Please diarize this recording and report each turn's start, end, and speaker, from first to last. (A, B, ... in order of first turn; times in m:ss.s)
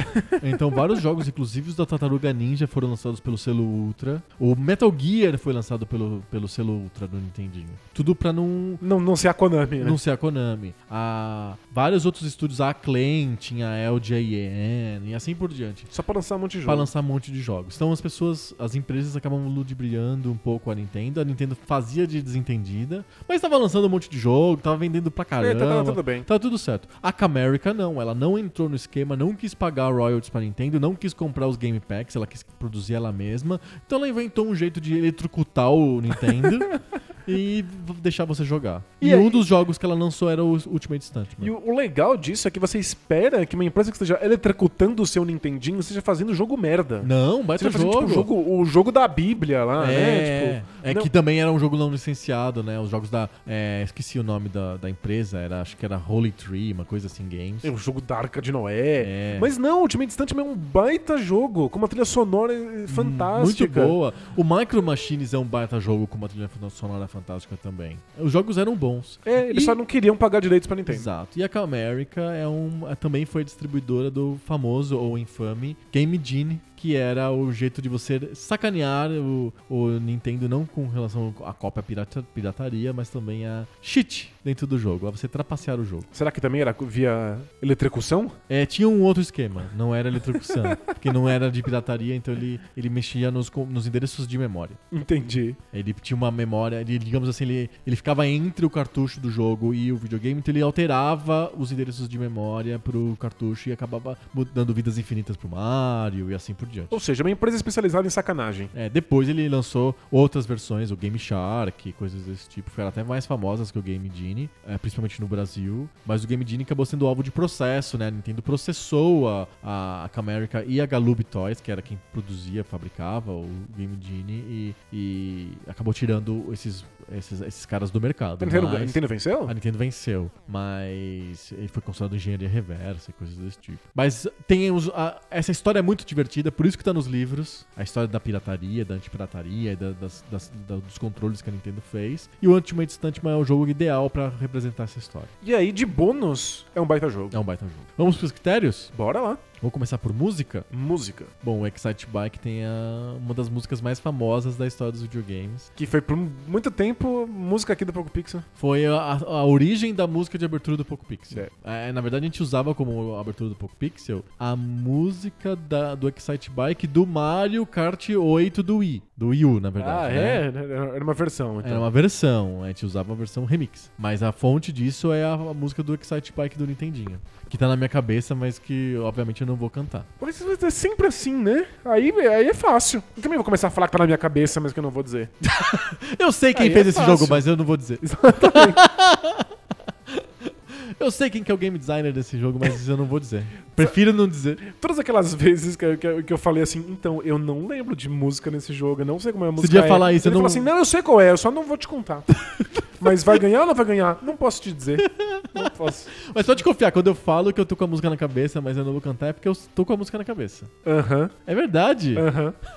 0:00.4-0:08.8 A
0:08.8-0:10.0 B
0:09.8-0:15.9 A
0:15.9-0:16.9 B
0:16.6-0:41.5 A
0:25.4-0:26.3 B
0:39.0-0:39.4 B
0:41.4-0:51.1 B
0:47.0-0:48.3 A
0:49.8-0:57.7 A
0:57.6-1:04.0 B
0:59.0-0:59.5 A
1:02.9-1:09.8 A
1:09.2-1:11.1 B
1:10.9-1:26.1 A
1:26.1-1:28.4 B
1:28.5-1:34.8 A
1:30.4-1:30.8 B
1:34.9-1:35.6 B
1:35.7-1:47.0 A
1:46.9-1:48.7 B
1:48.7-2:25.3 A
2:08.4-2:09.5 B
2:25.4-2:27.4 B
2:27.3-2:28.9 A
2:28.9-2:29.4 B
2:29.6-2:30.7 A
2:30.7-2:31.3 B
2:31.4-2:35.7 A
2:35.8-2:38.5 B
2:38.6-2:50.4 A
2:49.8-2:51.9 B
2:51.6-3:00.1 A
3:00.2-3:05.3 B
3:05.4-3:09.5 A
3:06.6-3:07.4 B
3:08.0-3:08.8 B
3:10.1-3:14.6 A
3:14.6-3:22.3 B
3:19.6-3:20.7 A
3:22.5-3:23.1 A
3:23.0-3:26.1 B
3:25.0-3:30.7 A
3:30.8-3:31.4 B
3:31.5-3:32.3 A
3:32.2-3:32.6 B